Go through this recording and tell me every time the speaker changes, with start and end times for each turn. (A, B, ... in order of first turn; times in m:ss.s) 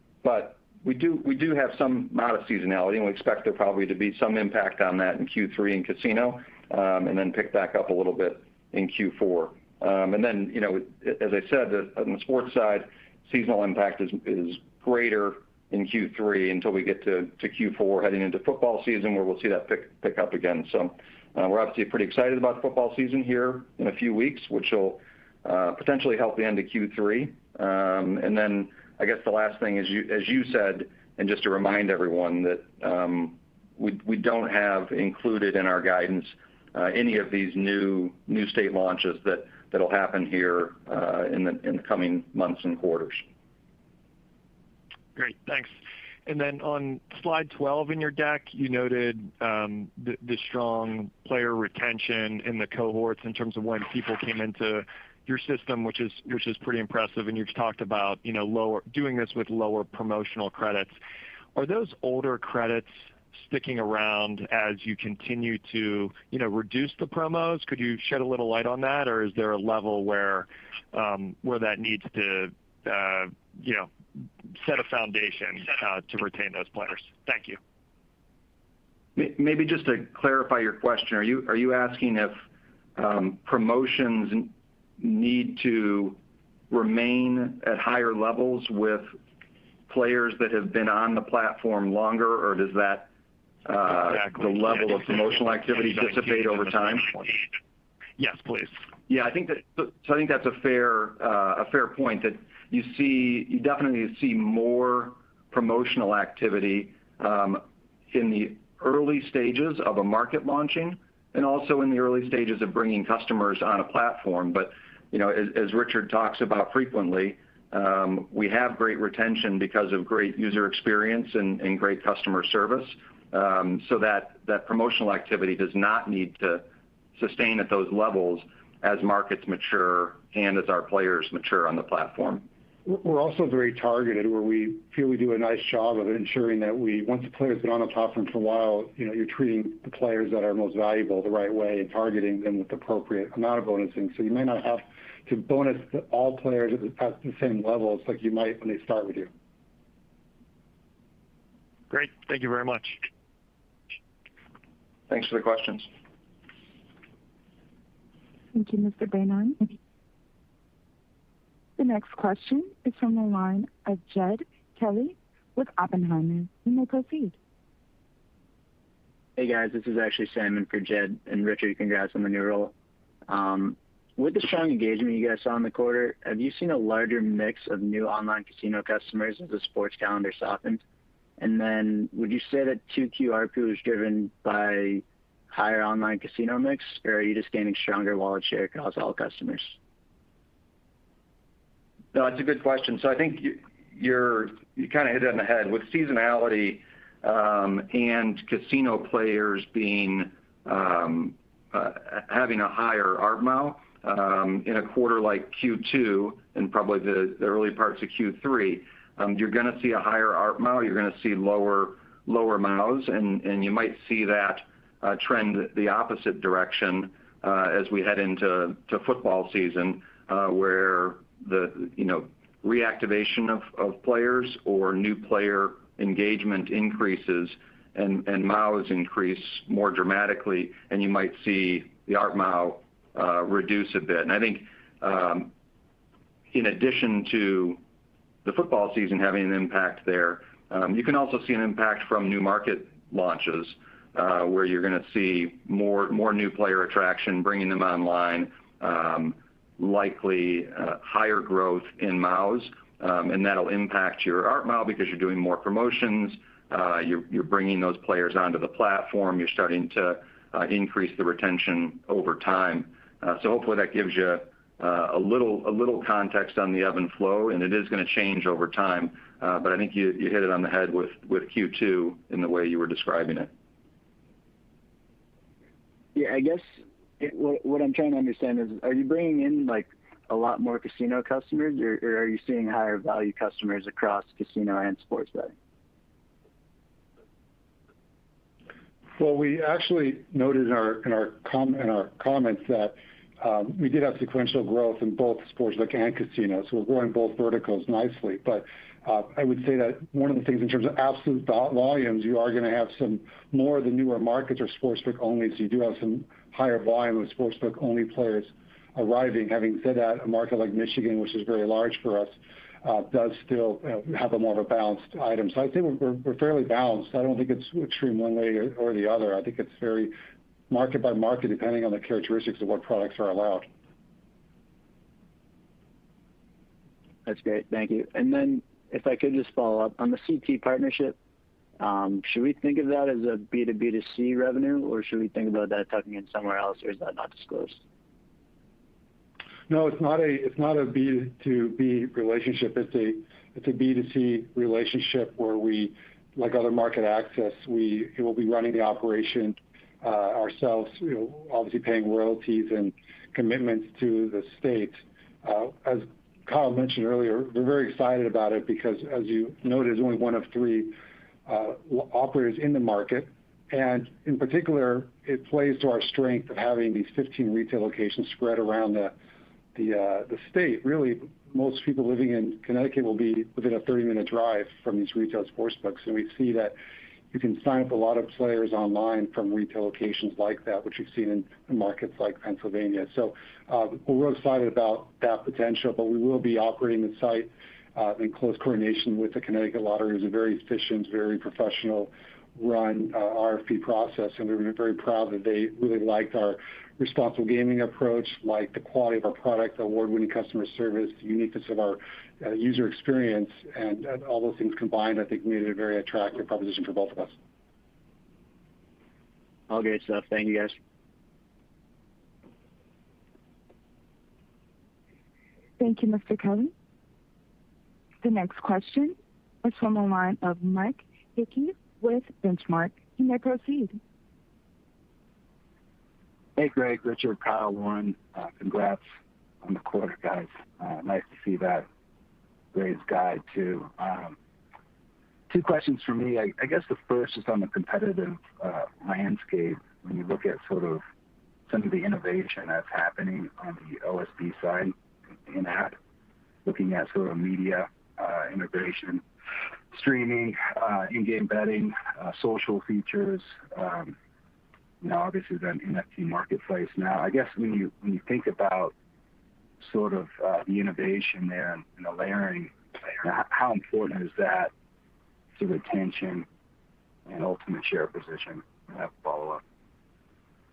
0:00.2-0:43.2 A
0:45.1-0:45.7 B
0:46.2-1:00.9 B
1:01.5-1:13.9 B
1:14.5-1:17.6 B
1:19.2-1:22.4 A
1:23.0-1:26.2 A
1:26.7-1:29.1 A
1:29.9-1:33.1 A
1:33.6-1:37.1 A
1:34.0-1:37.4 B
1:38.2-1:38.7 B
1:39.1-2:12.4 A
2:12.8-2:29.3 C
2:31.9-2:33.0 B
2:35.1-2:35.9 A
2:38.5-2:39.7 D
2:41.8-2:47.3 D
2:49.4-2:52.7 E
2:53.3-3:00.8 E
3:01.4-3:09.8 E
3:12.1-3:55.5 A
3:56.5-3:57.8 A
3:58.4-4:33.5 A
4:36.1-4:45.5 E
4:49.2-5:20.2 C
5:20.7-5:23.7 C
5:27.2-5:31.2 E
5:31.8-5:37.8 E
5:39.7-6:09.1 C
6:09.7-6:16.8 C
6:17.3-6:47.4 C
6:49.7-6:50.8 E
6:55.8-6:56.7 D
6:58.2-7:04.0 D
7:06.6-7:09.0 F
7:09.6-7:11.8 F
7:12.7-7:14.4 F
7:15.5-7:21.0 F
7:21.7-7:24.9 F
7:25.5-7:26.0 F
7:26.6-7:29.2 F
7:29.9-7:34.2 F
7:35.0-7:38.9 F
7:39.8-7:44.7 F
7:45.6-7:46.5 F
7:47.3-7:49.6 F